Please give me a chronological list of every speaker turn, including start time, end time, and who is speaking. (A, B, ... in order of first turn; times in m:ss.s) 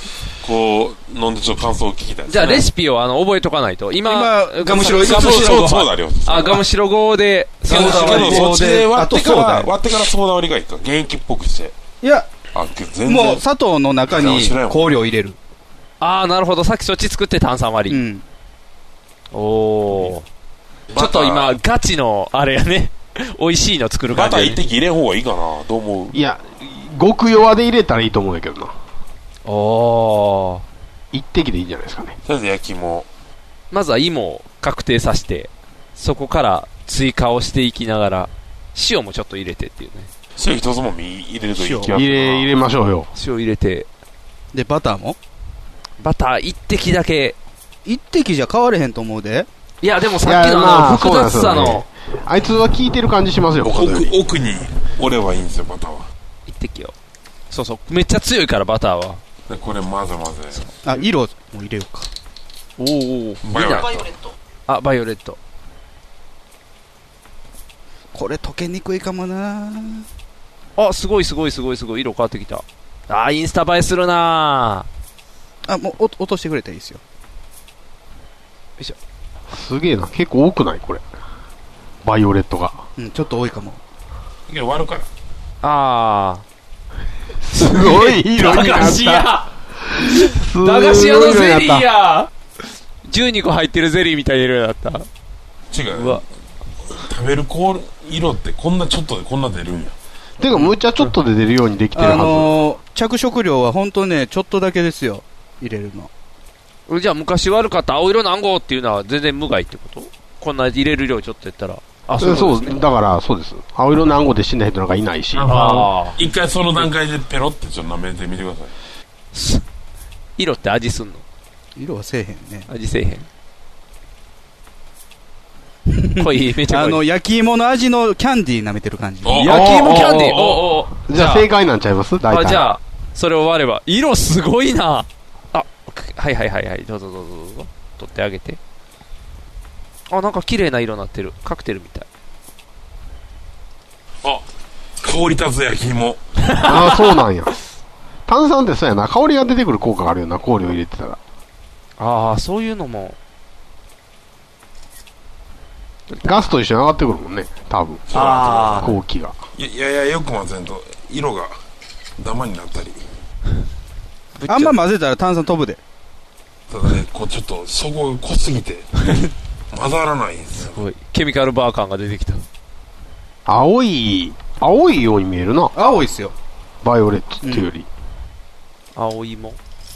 0:00.4-0:02.6 A
0:02.3-0:05.7 B
0:04.0-0:05.9 C
0:04.8-0:06.6 A
0:06.2-0:08.5 B
0:07.7-0:09.7 C
0:07.7-0:11.7 A
0:12.0-0:12.3 C
0:12.5-0:13.4 A
0:13.0-0:15.4 C
0:14.1-0:14.9 A
0:16.0-0:18.0 B
0:17.9-0:18.2 C
0:19.3-0:20.2 B
0:20.9-0:21.6 A
0:21.0-0:24.6 B
0:24.1-0:26.1 A
0:26.1-0:28.7 D
0:29.4-0:30.6 B
0:31.1-0:32.2 D
0:32.2-0:33.0 A
0:33.7-0:40.1 B
0:40.4-0:42.5 A
0:41.6-0:41.9 C
0:41.9-0:43.1 D
0:43.1-0:43.9 B
0:44.5-0:45.2 C
0:46.0-0:47.4 B
0:47.8-0:49.5 C
0:49.8-0:51.8 B
0:50.2-0:54.1 D
0:53.6-0:56.1 A
0:56.5-0:56.9 B
0:57.5-0:59.2 B
0:59.5-1:00.6 A
1:00.8-1:02.1 C
1:02.8-1:03.9 B
1:03.4-1:04.1 A
1:04.7-1:05.4 B
1:08.1-1:10.1 C
1:10.8-1:14.9 B
1:15.6-1:17.0 C
1:19.5-1:21.0 D
1:22.0-1:22.8 D
1:23.0-1:23.8 C
1:24.5-1:25.1 A
1:25.6-1:26.4 B
1:27.4-1:29.4 D
1:27.5-1:29.5 B
1:30.0-1:31.8 D
1:30.6-1:32.3 B
1:33.1-1:35.1 B
1:35.7-1:36.2 A
1:35.9-1:36.2 B
1:36.9-1:39.9 A
1:40.4-1:42.5 D
1:41.9-1:46.1 C
1:46.9-1:52.8 B
1:52.2-1:55.5 D
1:55.4-1:58.7 A
1:55.4-1:56.2 B
1:59.3-1:59.6 B
2:00.4-2:01.2 B
2:01.8-2:02.7 C
2:02.7-2:03.3 B
2:05.9-2:10.1 C
2:06.2-2:07.0 B
2:09.2-2:10.6 A
2:09.4-2:11.5 B
2:09.6-2:10.4 D
2:11.1-2:12.6 D
2:12.3-2:18.6 B
2:20.1-2:22.1 B
2:25.0-2:26.2 A
2:26.6-2:27.5 D
2:28.3-2:31.2 D
2:32.0-2:33.2 B
2:36.1-2:36.5 B
2:36.2-2:38.0 D
2:38.1-2:38.9 A
2:38.1-2:38.9 B
2:38.8-2:39.3 D
2:39.6-2:41.5 A
2:42.2-2:43.0 A
2:44.4-2:44.8 B
2:44.5-2:45.8 C
2:46.7-2:48.9 A
2:49.7-2:50.8 A
2:50.6-2:52.4 B
2:53.4-2:55.7 D
2:55.7-2:56.3 C
2:56.8-2:57.9 D
2:57.4-2:57.7 C
2:59.0-2:59.6 B